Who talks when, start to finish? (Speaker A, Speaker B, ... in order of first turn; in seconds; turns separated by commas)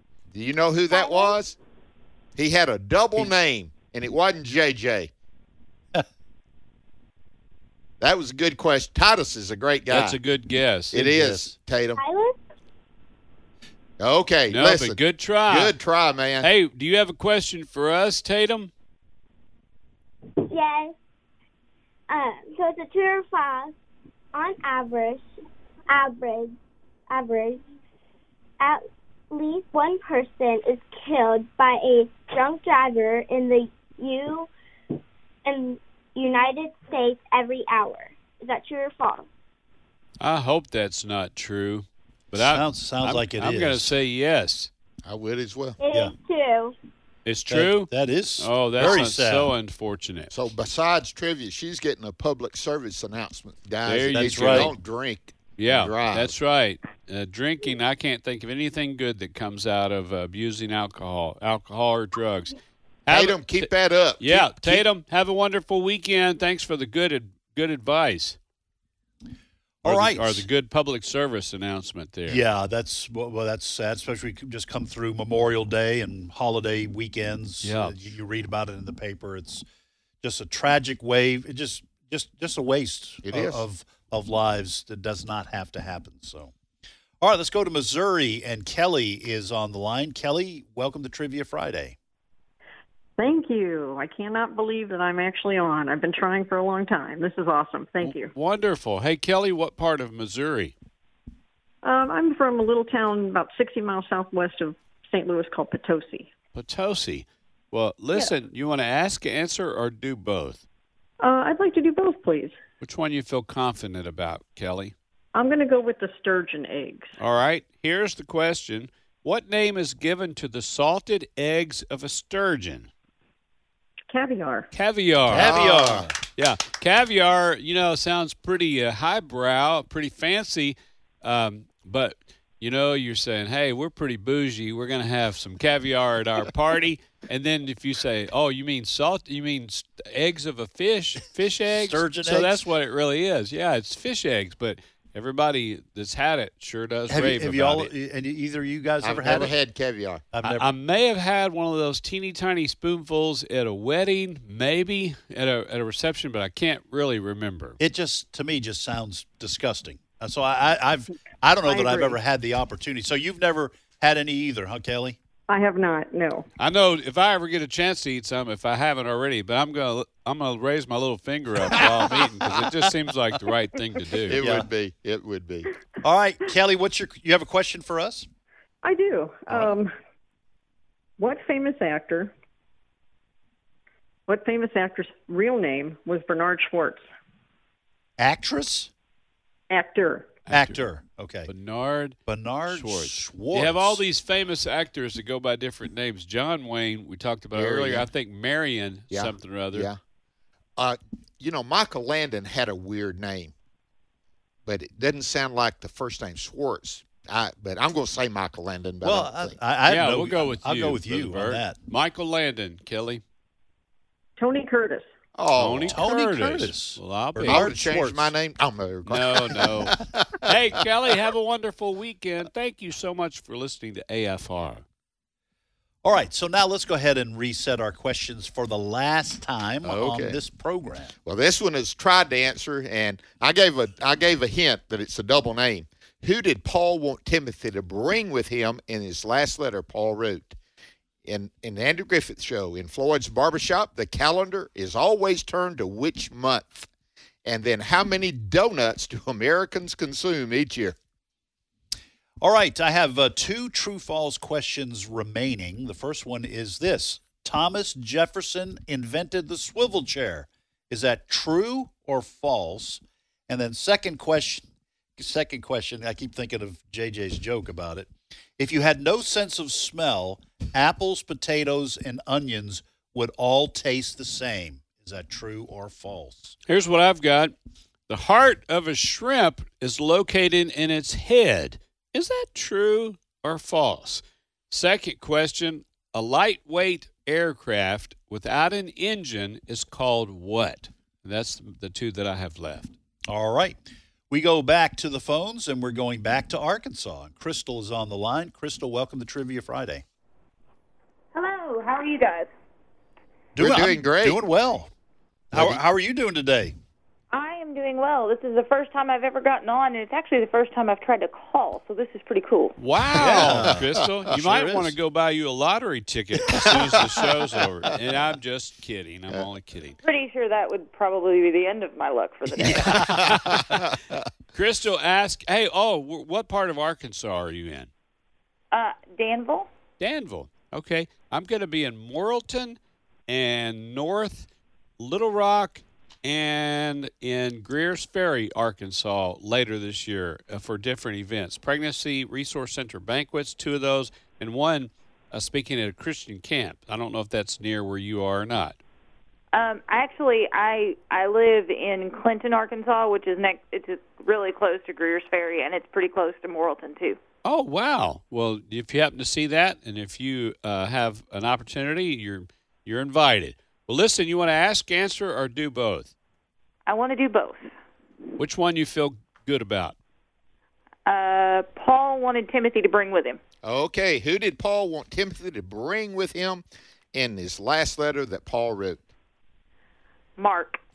Speaker A: 0.3-1.6, Speaker B: 0.9-1.4, Speaker A: 2.4-5.1, Speaker A: 8.0-10.2, Speaker C: 9.9-11.0, Speaker A: 10.9-12.0, Speaker D: 10.9-11.5, Speaker B: 12.0-12.4, Speaker A: 14.0-16.5, Speaker C: 14.5-15.8, Speaker C: 16.4-18.7, Speaker B: 20.4-20.9, Speaker B: 22.1-23.7, Speaker B: 24.3-25.2, Speaker B: 25.9-26.6, Speaker B: 27.1-27.6, Speaker B: 28.6-34.5, Speaker B: 35.4-39.3, Speaker C: 40.2-44.7, Speaker D: 42.3-43.9, Speaker A: 45.1-45.8, Speaker B: 45.8-46.7, Speaker C: 47.2-50.3, Speaker D: 47.5-49.5, Speaker A: 48.8-49.0, Speaker A: 50.3-56.3, Speaker C: 53.8-54.7, Speaker D: 54.1-54.7, Speaker C: 55.6-62.5, Speaker C: 63.1-68.4, Speaker A: 63.1-64.8, Speaker D: 69.8-70.5, Speaker C: 69.8-72.4, Speaker D: 72.3-79.6, Speaker C: 77.6-78.0, Speaker D: 80.2-86.5, Speaker A: 83.2-83.6, Speaker D: 87.2-92.0, Speaker E: 93.2-98.3, Speaker C: 98.0-100.7, Speaker E: 101.8-106.3, Speaker C: 106.5-110.6, Speaker E: 111.2-112.6, Speaker C: 112.8-114.9, Speaker E: 115.3-117.1, Speaker C: 117.2-122.9, Speaker E: 124.1-124.7, Speaker C: 124.7-125.7, Speaker D: 125.3-126.2, Speaker A: 125.3-126.1, Speaker C: 126.4-147.9, Speaker D: 141.7-142.6, Speaker D: 147.1-149.5, Speaker A: 149.0-150.2, Speaker D: 150.3-150.7, Speaker C: 150.4-157.8, Speaker D: 157.8-165.2, Speaker E: 161.6-162.2, Speaker E: 165.5-166.5, Speaker C: 166.6-174.4, Speaker D: 171.7-172.6, Speaker A: 174.3-175.7, Speaker D: 174.3-174.7, Speaker D: 176.0-178.3, Speaker E: 178.8-179.9, Speaker E: 181.2-182.3, Speaker E: 184.3-187.1, Speaker D: 188.2-188.9, Speaker E: 189.7-190.4, Speaker C: 190.5-190.8, Speaker D: 190.5-191.5, Speaker C: 191.5-199.9, Speaker D: 192.3-194.0, Speaker A: 197.5-198.1, Speaker A: 199.1-200.0, Speaker A: 200.8-203.5, Speaker A: 204.7-209.6, Speaker D: 209.0-211.8, Speaker C: 209.9-213.2, Speaker E: 214.4-215.1, Speaker A: 215.4-216.0, Speaker C: 215.5-217.7, Speaker D: 215.9-218.3, Speaker A: 217.5-220.5, Speaker C: 219.1-224.8, Speaker D: 226.0-231.1, Speaker A: 229.8-230.4, Speaker A: 231.2-240.6, Speaker A: 241.2-246.9, Speaker A: 247.4-251.0, Speaker D: 252.4-264.6, Speaker D: 265.2-276.6, Speaker C: 276.7-277.5, Speaker C: 278.1-292.9, Speaker D: 293.3-293.8, Speaker D: 294.3-300.0, Speaker F: 301.3-302.5, Speaker D: 303.6-304.9, Speaker A: 303.6-304.4, Speaker D: 305.5-306.8, Speaker F: 307.3-312.8, Speaker C: 312.8-320.0, Speaker D: 313.1-315.0, Speaker A: 313.3-313.6, Speaker A: 316.5-317.2, Speaker F: 320.0-322.9, Speaker D: 322.6-323.6, Speaker A: 322.7-324.2, Speaker C: 323.1-323.7, Speaker C: 324.5-327.9, Speaker F: 328.7-329.7, Speaker C: 330.0-348.8, Speaker F: 349.5-357.2, Speaker C: 357.4-366.1, Speaker F: 366.9-367.7, Speaker C: 368.4-370.0, Speaker F: 371.1-373.4, Speaker A: 373.6-379.0, Speaker F: 380.4-380.8